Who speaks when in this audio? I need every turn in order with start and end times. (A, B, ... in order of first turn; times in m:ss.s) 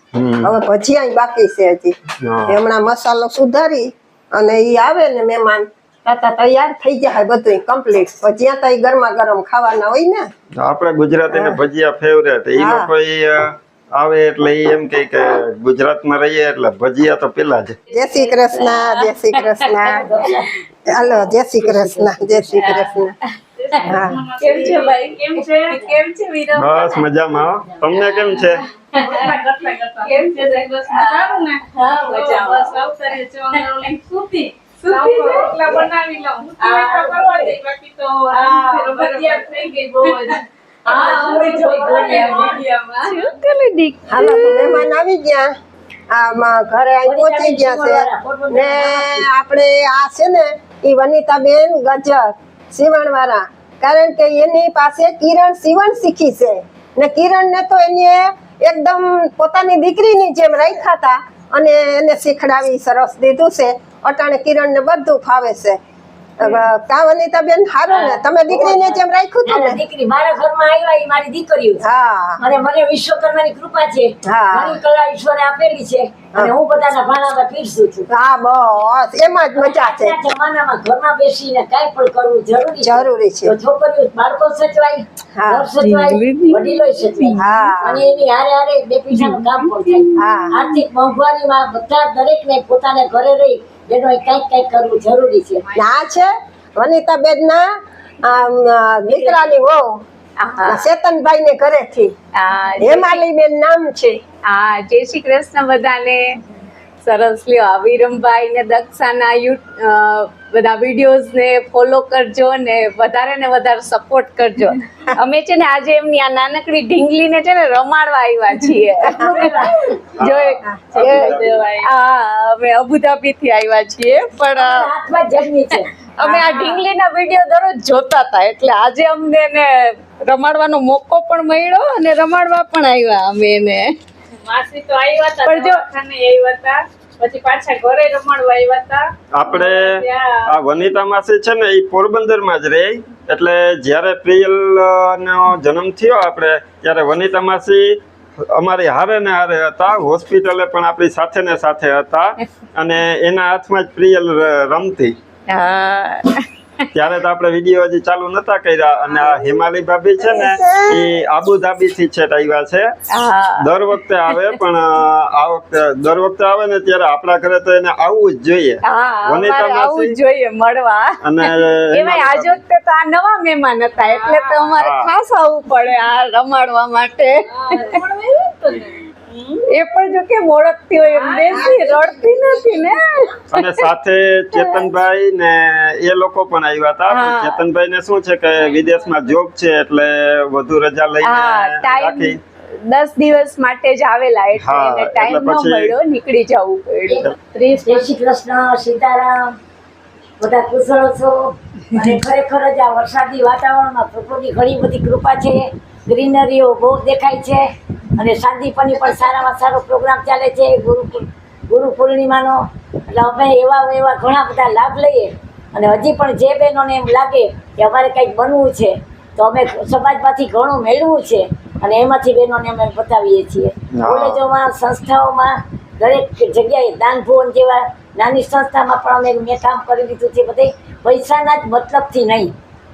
0:00.1-0:00.5 A
0:00.4-0:02.0 B
0:02.2-0:02.6 A
0:02.5-0:10.3 B
0:10.6-0:17.8 A
0:11.3-0:11.6 B
0:12.6-0:12.9 B
0:17.9-0:20.1 B
0:18.5-0:19.7 C
0:19.8-0:20.5 D
0:20.9-0:23.2 B
0:21.6-0:22.8 D
0:22.6-0:22.8 C
0:23.6-0:25.9 E
0:23.9-0:24.2 B
0:23.9-0:27.1 C
0:26.5-0:28.6 A
0:27.9-0:29.4 C
0:28.9-0:34.2 E
0:30.0-0:32.8 C
0:33.5-0:35.8 C
0:34.8-0:44.7 E
0:36.6-0:37.6 C
0:38.3-0:40.3 C
0:40.9-0:42.6 D
0:40.9-0:43.3 C
0:43.8-0:44.8 C
0:44.1-0:45.5 B
0:46.1-1:05.8 B
0:47.0-0:49.3 D
1:06.4-1:09.8 B
1:07.9-1:11.8 D
1:11.8-1:12.4 B
1:12.4-1:18.1 D
1:14.3-1:14.8 B
1:18.1-1:20.2 B
1:19.6-1:35.6 D
1:22.8-1:23.5 B
1:25.4-1:25.7 B
1:25.8-1:27.4 C
1:27.4-1:28.0 B
1:29.9-1:30.8 C
1:30.2-1:30.6 B
1:35.8-1:37.7 B
1:38.2-1:40.0 B
1:40.4-1:40.8 C
1:40.6-1:42.1 B
1:42.4-1:43.2 C
1:42.8-1:44.2 B
1:44.5-1:46.4 C
1:47.0-1:59.5 C
1:59.0-1:59.9 D
2:00.1-2:04.9 C
2:00.2-2:01.7 A
2:01.0-2:01.9 E
2:04.5-2:05.9 D
2:05.8-2:13.9 C
2:06.5-2:06.8 E
2:14.4-2:20.5 E
2:15.4-2:15.8 C
2:19.3-2:35.2 A
2:35.5-2:36.9 C
2:36.9-2:42.9 A
2:39.1-2:39.5 C
2:40.4-2:40.9 C
2:43.1-2:43.7 C
2:43.6-2:50.2 A
2:48.8-2:57.9 C
2:51.2-2:52.6 A
2:54.0-2:54.8 E
2:54.8-2:55.1 A
2:57.5-2:59.6 E
2:59.7-3:03.9 C
3:01.1-3:01.7 E
3:01.4-3:03.4 B
3:03.5-3:12.4 A
3:04.5-3:04.9 C
3:07.1-3:07.6 C
3:08.6-3:09.1 E
3:11.2-3:18.1 C
3:14.6-3:16.0 A
3:17.8-3:19.6 D
3:20.4-3:27.6 D
3:28.2-3:52.5 D
3:43.9-3:44.4 A